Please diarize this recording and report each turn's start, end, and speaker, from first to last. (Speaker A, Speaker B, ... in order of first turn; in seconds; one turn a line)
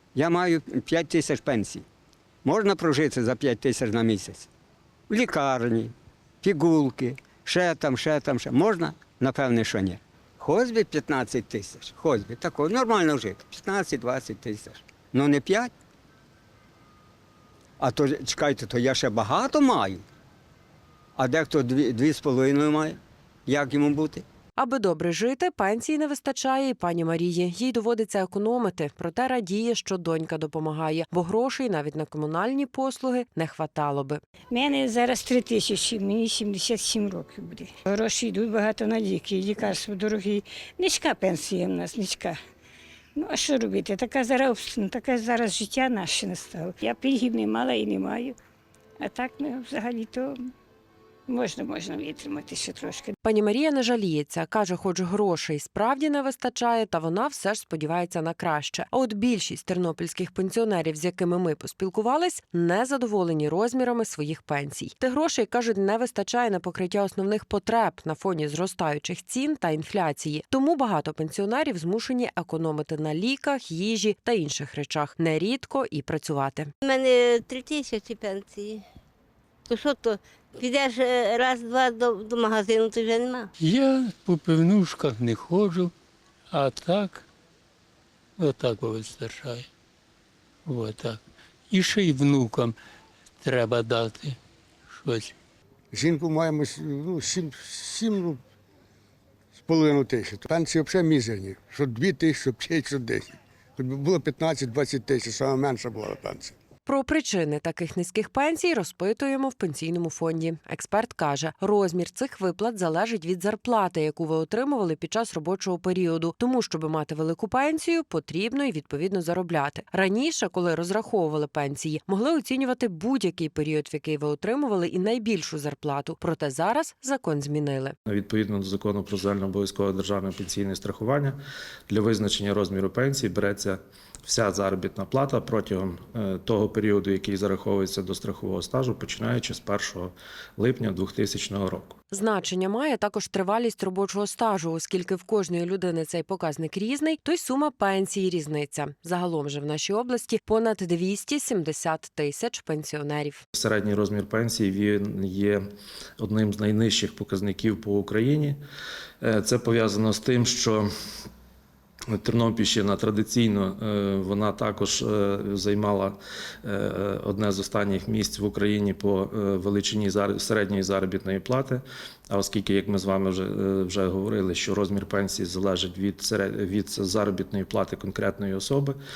Speaker A: 0.1-1.8
Speaker A: 2.4-4.5
Speaker A: 5.1-15.7
Speaker A: 17.8-20.0
Speaker A: 21.2-24.2
Speaker B: 24.6-34.2
Speaker C: 34.5-42.4
Speaker C: 43.1-48.4
Speaker C: 49.0-50.5
Speaker C: 51.3-53.1
Speaker B: 53.2-76.7
Speaker D: 76.8-78.8
Speaker D: 79.7-83.5
Speaker E: 83.6-85.9
Speaker E: 86.5-87.3
Speaker E: 88.4-89.7
Speaker E: 90.6-92.8
Speaker E: 93.4-94.4
Speaker E: 94.9-95.3
Speaker F: 95.9-98.4
Speaker F: 99.6-106.5
Speaker B: 106.8-128.0
Speaker G: 128.1-131.4
Speaker G: 131.9-142.0
Speaker B: 142.1-153.4
Speaker G: 153.5-155.6
Speaker G: 156.2-158.6
Speaker G: 159.2-160.9
Speaker G: 162.1-178.9